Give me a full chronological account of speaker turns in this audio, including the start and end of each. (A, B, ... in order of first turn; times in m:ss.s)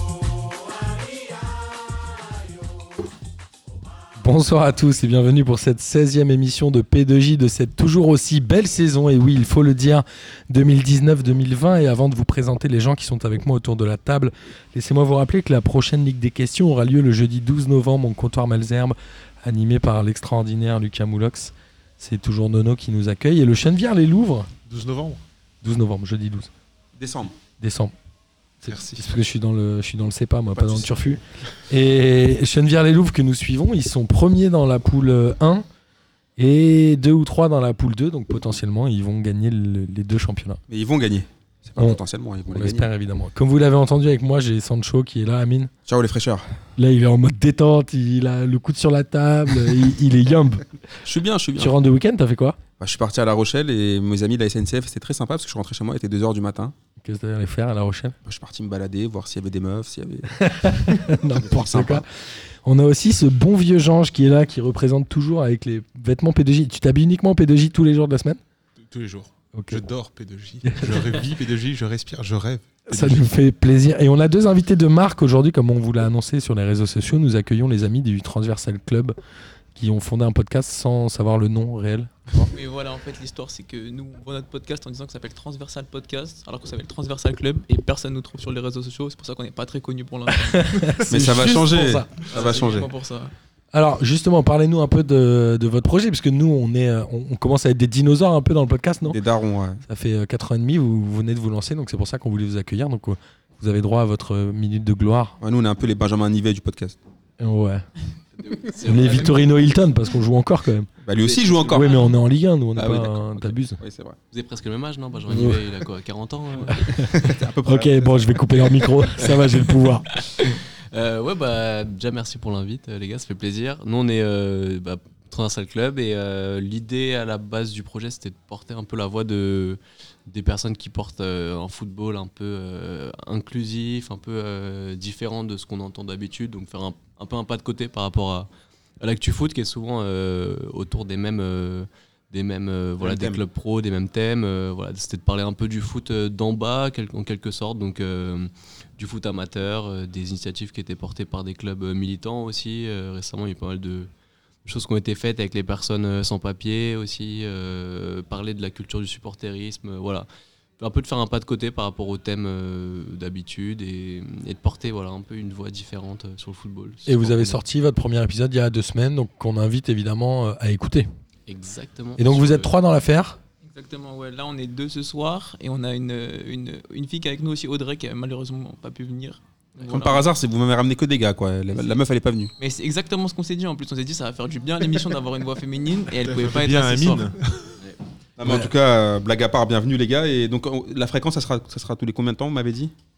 0:04.2-0:24.5 A
0:24.6-0:25.2 B
0:25.6-0:26.5 A
0:27.0-0:27.3 C
0:27.6-0:27.9 A
0:28.6-0:35.6 A
0:28.7-0:29.0 B
0:36.4-0:40.6 A
0:40.7-0:42.9 C
0:41.8-0:45.7 A
0:45.9-0:46.4 C
0:46.8-0:50.6 A
0:51.0-0:51.7 C
0:51.6-0:52.6 A
0:52.8-0:56.7 C
0:57.0-0:58.2 A
0:58.2-1:02.0 C
1:00.3-1:02.0 A
1:02.6-1:08.4 A
1:08.9-1:13.3 B
1:09.5-1:09.8 A
1:10.6-1:11.2 A
1:12.9-1:19.1 A
1:19.7-1:22.3 A
1:22.4-1:31.0 D
1:30.3-1:32.1 A
1:31.1-1:32.9 C
1:32.3-1:33.3 D
1:33.7-1:39.2 A
1:39.1-1:39.8 C
1:39.8-1:45.4 A
1:45.4-1:47.0 C
1:47.4-1:47.8 A
1:48.4-1:49.5 E
1:48.8-1:50.9 A
1:51.0-1:52.0 C
1:51.2-1:52.0 E
1:51.6-1:53.8 A
1:52.8-1:54.2 C
1:54.3-1:57.1 E
1:55.3-1:55.6 A
1:56.7-2:00.1 A
1:57.0-1:58.2 C
1:59.2-2:18.5 E
2:19.0-2:34.1 E
2:23.0-2:23.4 C
2:34.6-2:40.3 E
2:40.8-2:47.6 E
2:47.0-2:51.0 A
2:51.5-2:52.7 E
2:52.2-2:53.4 A
2:53.6-3:00.3 D
2:59.8-3:02.5 C
3:02.6-3:07.3 D
3:06.2-3:07.8 B
3:08.4-3:12.9 C
3:08.4-3:08.7 A